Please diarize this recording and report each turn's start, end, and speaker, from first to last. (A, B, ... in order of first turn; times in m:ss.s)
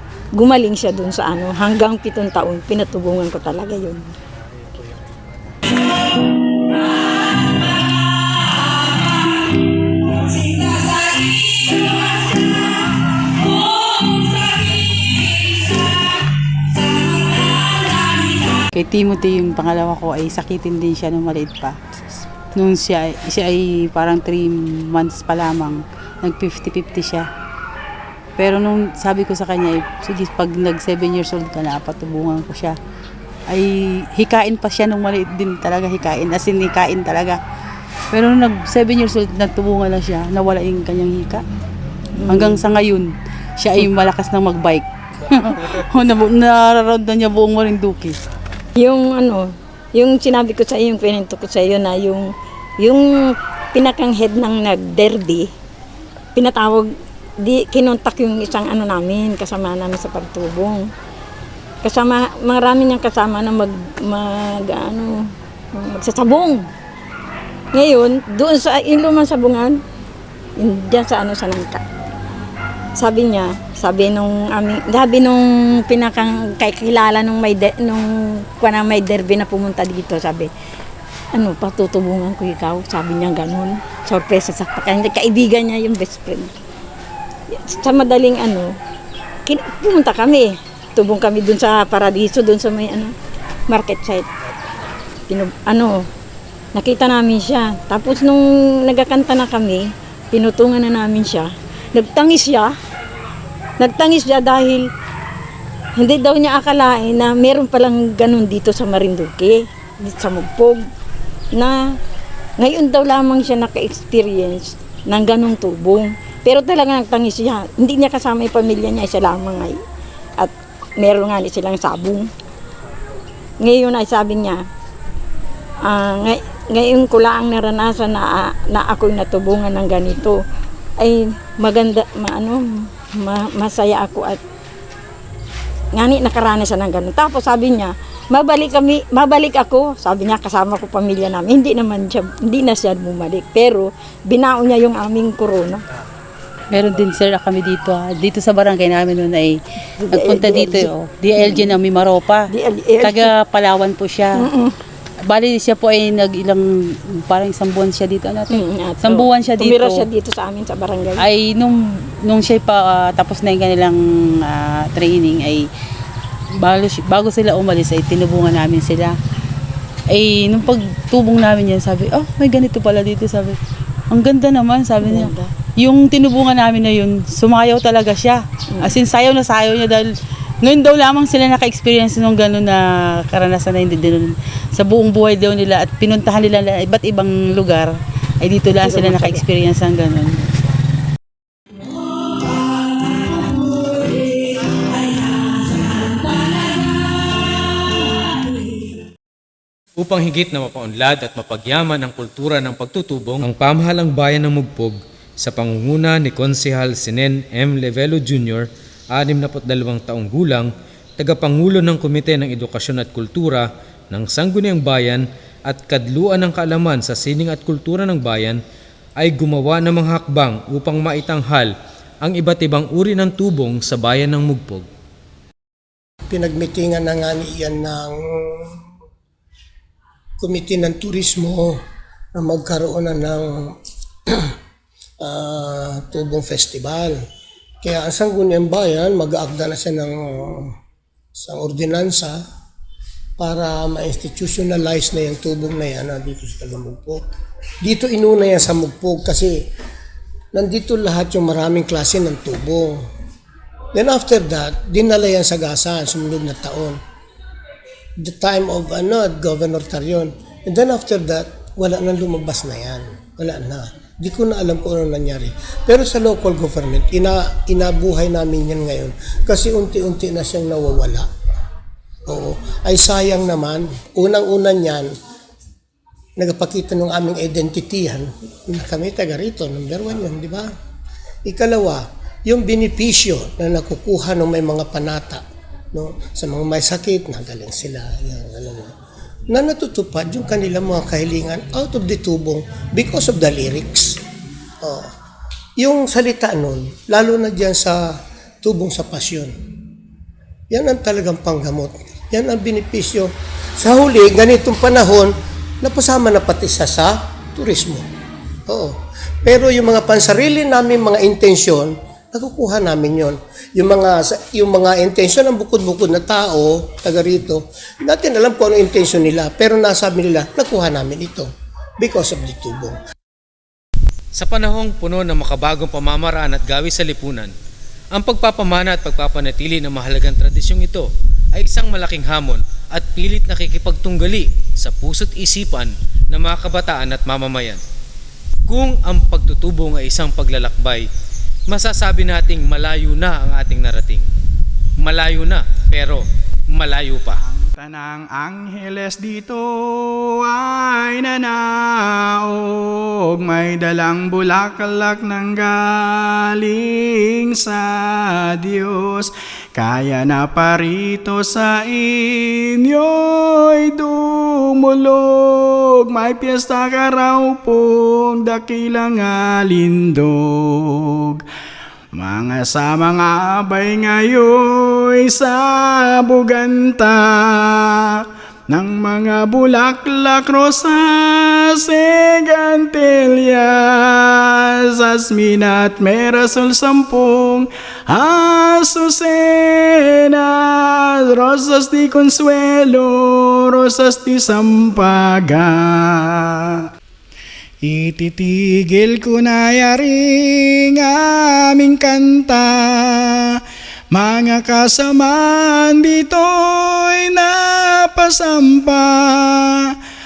0:00.4-0:04.1 A
0:18.6-0:22.0 B
0:22.6-0:27.3 B
0:28.4-0:32.8 B
0:33.5-0:37.4 B
0:38.1-0:41.4 B
0:42.2-0:42.6 A
0:42.3-0:48.2 B
0:48.8-0:52.2 A
0:52.8-0:53.1 A
0:53.7-0:55.5 A
0:56.4-0:56.9 A
0:57.4-1:00.8 A
1:01.8-1:05.2 A
1:05.8-1:06.6 A
1:07.7-1:09.8 A
1:10.6-1:11.8 A
1:13.0-1:20.5 A
1:21.3-1:26.5 A
1:27.6-1:28.7 A
1:29.5-1:33.1 A
1:33.7-1:34.3 A
1:35.3-1:36.0 A
1:36.8-1:42.7 A
1:43.8-1:44.9 A
1:46.0-1:50.8 A
1:52.6-1:59.8 A
2:00.4-2:02.3 A
2:03.6-2:04.6 A
2:05.8-2:10.4 A
2:11.0-2:12.6 A
2:13.2-2:14.4 A
2:15.9-2:25.8 A
2:26.7-2:29.6 B
2:30.0-2:31.7 A
2:30.1-2:32.5 B
2:32.5-2:33.3 A
2:33.0-2:34.4 B
2:34.4-2:34.7 A
2:35.2-2:40.0 B
2:38.5-2:41.2 A
2:41.2-2:45.7 B
2:46.6-2:49.2 B
2:50.1-2:53.6 B
2:54.1-3:00.1 B
2:55.0-2:55.5 A
3:00.6-3:10.5 B
3:08.8-3:09.4 A
3:20.0-3:38.6 C
3:39.2-3:41.7 C
3:42.2-3:44.9 C
3:46.3-3:48.8 D
3:50.4-3:51.8 D
3:52.4-3:53.8 D
3:55.2-3:57.2 D
3:57.8-4:00.7 D
4:01.4-4:02.4 D
4:03.4-4:07.2 D
4:07.8-4:09.6 D
4:10.5-4:13.0 D
4:14.0-4:17.0 D
4:18.2-4:31.3 D
4:32.3-4:35.1 D
4:36.4-4:40.7 D
4:41.5-4:48.9 D
4:49.5-4:54.2 D
4:54.8-4:55.1 D
4:55.8-4:59.5 D
5:00.7-5:08.1 D
5:08.7-5:23.0 D
5:24.4-5:27.5 C
5:28.2-5:37.8 C
5:38.7-5:41.1 C
5:41.7-5:44.3 C
5:45.0-5:47.4 C
5:47.4-6:11.4 E
6:12.1-6:36.8 E
6:37.8-6:43.6 E
6:44.1-6:49.9 E